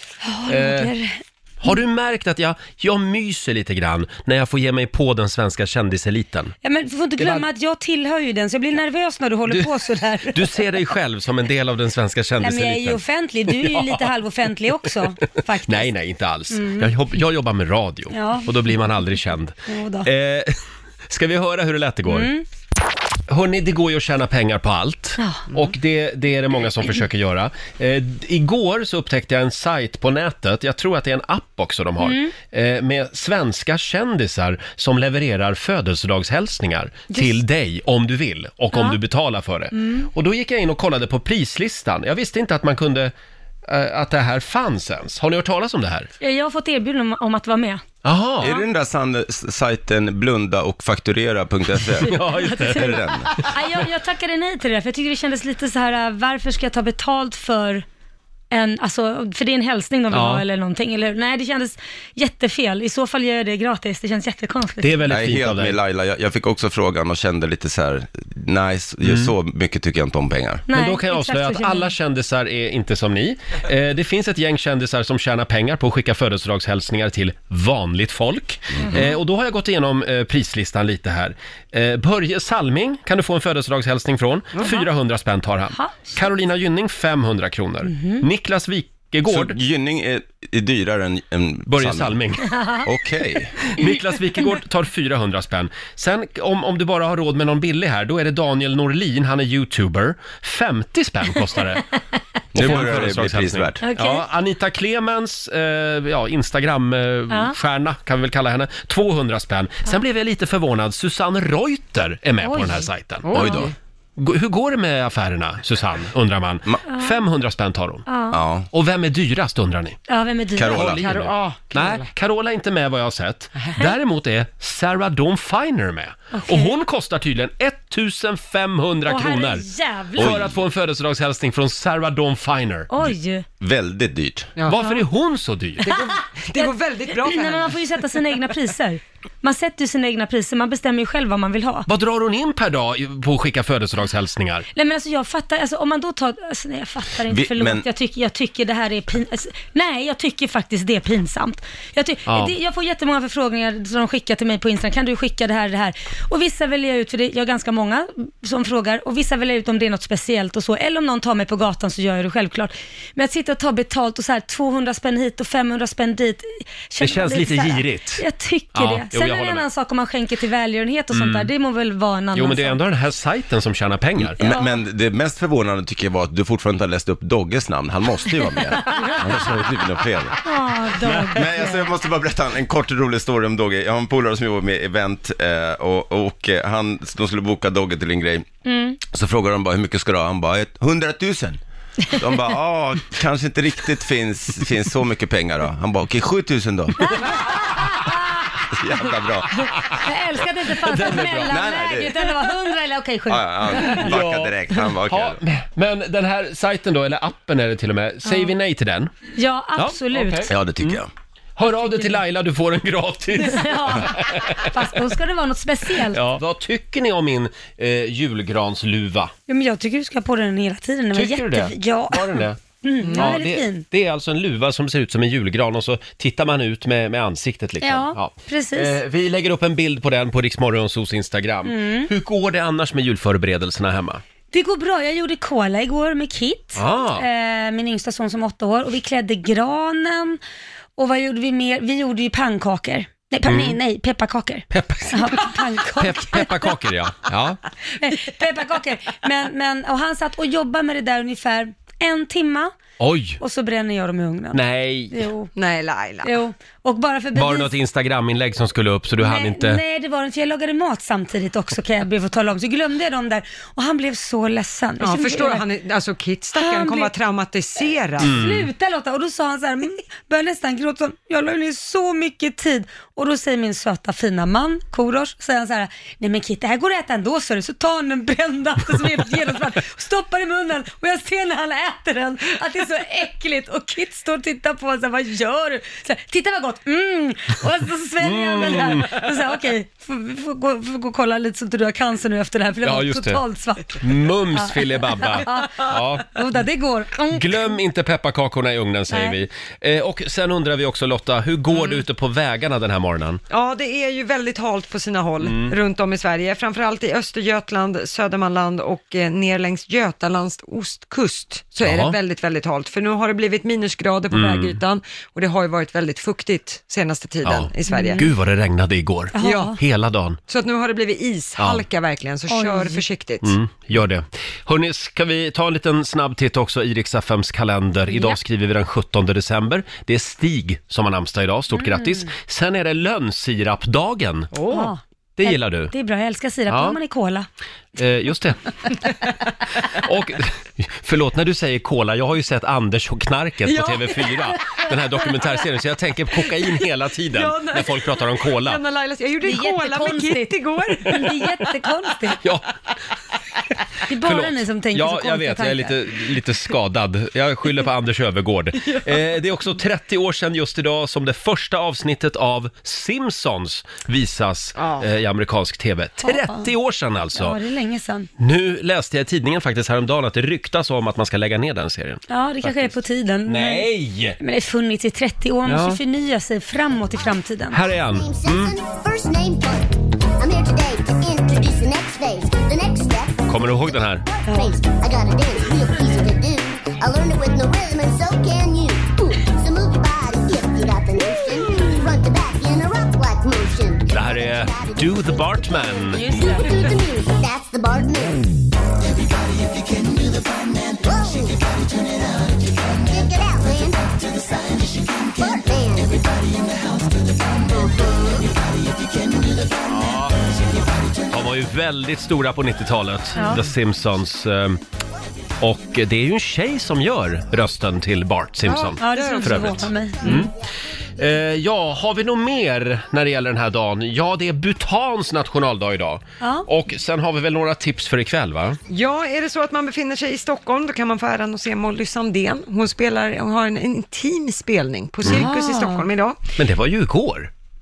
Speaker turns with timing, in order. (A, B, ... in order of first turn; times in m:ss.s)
0:00.2-0:01.7 A
0:00.5-0:00.9 B
0:01.6-0:06.6 B
0:06.6-0:10.7 A
0:07.2-0:07.5 B
0:10.3-0:14.1 B
0:12.4-0:15.9 A
0:15.7-0:22.3 B
0:16.5-0:16.9 A
0:18.1-0:18.6 A
0:19.7-0:20.1 A
0:22.1-0:22.4 A
0:23.3-0:43.1 B
0:25.2-0:25.5 A
0:32.0-0:32.4 A
0:38.7-0:39.0 A
0:39.7-0:40.1 A
0:43.7-0:46.1 B
0:46.2-0:47.8 A
0:48.0-0:48.6 B
0:48.4-0:53.4 C
0:52.0-0:53.6 B
0:52.3-0:57.8 A
0:58.5-1:05.0 A
1:00.1-1:00.4 B
1:04.8-1:05.8 B
1:05.1-1:10.6 C
1:09.0-1:09.3 B
1:10.7-1:11.9 A
1:10.7-1:29.6 B
1:24.6-1:24.8 A
1:25.7-1:26.2 A
1:27.9-1:28.2 A
1:29.3-1:32.3 C
1:31.7-1:32.4 B
1:32.5-1:32.8 A
1:32.8-1:33.6 C
1:33.8-1:41.8 B
1:42.5-1:43.8 C
1:42.6-1:58.0 B
1:43.8-1:44.2 A
1:47.3-1:47.6 A
1:52.4-1:53.4 A
1:53.2-1:53.7 D
1:53.3-1:53.7 C
1:56.9-1:57.2 A
1:58.1-1:58.4 A
1:58.3-1:58.7 C
1:58.7-2:00.0 B
2:00.1-2:01.0 A
2:00.6-2:01.1 C
2:00.6-2:13.0 B
2:01.0-2:02.1 D
2:06.3-2:06.8 A
2:09.1-2:10.4 A
2:10.2-2:10.6 C
2:12.9-2:13.4 A
2:13.6-2:14.5 C
2:14.7-2:16.0 B
2:14.7-2:15.0 A
2:15.8-2:18.0 D
2:16.6-2:21.9 A
2:21.9-2:24.7 B
2:24.7-2:52.8 A
2:27.3-2:27.8 C
2:32.3-2:32.6 B
2:47.0-2:49.7 B
2:51.1-2:51.5 B
2:52.3-2:54.4 B
2:54.4-3:00.4 C
2:54.4-2:54.8 A
2:58.8-2:59.2 A
3:00.4-3:02.0 A
3:01.0-3:01.4 B
3:01.3-3:08.6 C
3:08.6-3:09.0 A
3:09.1-3:11.6 C
3:12.2-3:17.0 C
3:17.1-3:18.2 A
3:18.8-3:19.5 C
3:19.9-3:24.0 A
3:20.8-3:21.6 B
3:21.5-3:22.3 C
3:23.3-3:25.4 C
3:23.8-3:29.1 B
3:28.2-3:28.5 A
3:29.4-3:30.5 A
3:29.8-3:31.0 B
3:30.5-3:31.1 C
3:31.6-3:34.8 B
3:33.4-3:36.2 A
3:36.1-3:39.3 B
3:39.5-3:43.8 A
3:41.1-3:42.6 B
3:43.0-3:43.4 D
3:43.1-3:54.2 B
3:47.8-3:49.0 A
3:51.6-3:52.1 A
3:54.5-4:00.4 A
3:56.8-3:57.2 B
4:01.0-4:06.7 A
4:03.4-4:03.8 B
4:04.7-4:07.6 B
4:08.0-4:12.8 A
4:13.0-4:13.4 B
4:13.4-4:15.5 A
4:14.5-4:15.2 B
4:15.6-4:16.3 D
4:16.2-4:17.7 A
4:17.3-4:19.8 B
4:19.2-4:25.7 A
4:25.0-4:28.4 D
4:26.6-4:27.1 A
4:28.2-4:28.7 B
4:28.2-4:57.7 A
4:48.2-4:49.2 B
4:52.8-4:53.4 B
4:54.0-4:56.3 B
4:57.3-5:03.4 B
4:59.1-4:59.4 A
5:03.5-5:18.2 D
5:05.4-5:05.8 B
5:11.8-5:12.2 B
5:14.3-5:14.8 B
5:17.4-5:20.4 B
5:17.9-5:18.3 A
5:19.3-5:19.8 A
5:19.4-5:19.8 D
5:20.5-5:23.5 D
5:21.6-5:21.8 B
5:22.5-5:23.0 A
5:23.4-5:34.6 B
5:28.1-5:28.4 A
5:31.7-5:32.3 A
5:34.5-5:34.9 D
5:34.7-5:37.5 A
5:35.4-5:35.9 B
5:36.7-5:37.0 B
5:38.0-5:38.6 B
5:39.9-5:48.8 B
5:43.7-5:44.4 D
5:47.3-5:51.7 D
5:49.4-5:50.6 A
5:51.1-5:52.4 A
5:52.4-5:52.7 B
5:54.1-5:56.0 A
5:54.2-6:07.6 B
6:04.8-6:05.1 D
6:06.2-6:06.7 A
6:07.3-6:08.3 A
6:08.4-6:14.4 B
6:12.3-6:17.8 A
6:15.6-6:16.0 B
6:17.7-6:18.7 B
6:17.9-6:35.8 E
6:23.5-6:24.2 B
6:24.5-6:24.8 A
6:34.1-6:36.3 B
6:36.1-6:36.9 A
6:36.4-6:38.5 E
6:40.8-6:41.8 E
6:43.0-6:47.0 E
6:47.5-6:48.6 E
6:49.9-6:50.4 B
6:51.3-6:54.8 B
6:53.4-6:53.6 A
6:55.6-7:00.5 B
6:58.7-6:59.9 D
6:59.0-7:00.5 A
7:01.2-7:08.8 B
7:06.4-7:06.7 A
7:08.9-7:16.4 D
7:15.3-7:16.1 A
7:16.6-7:17.5 B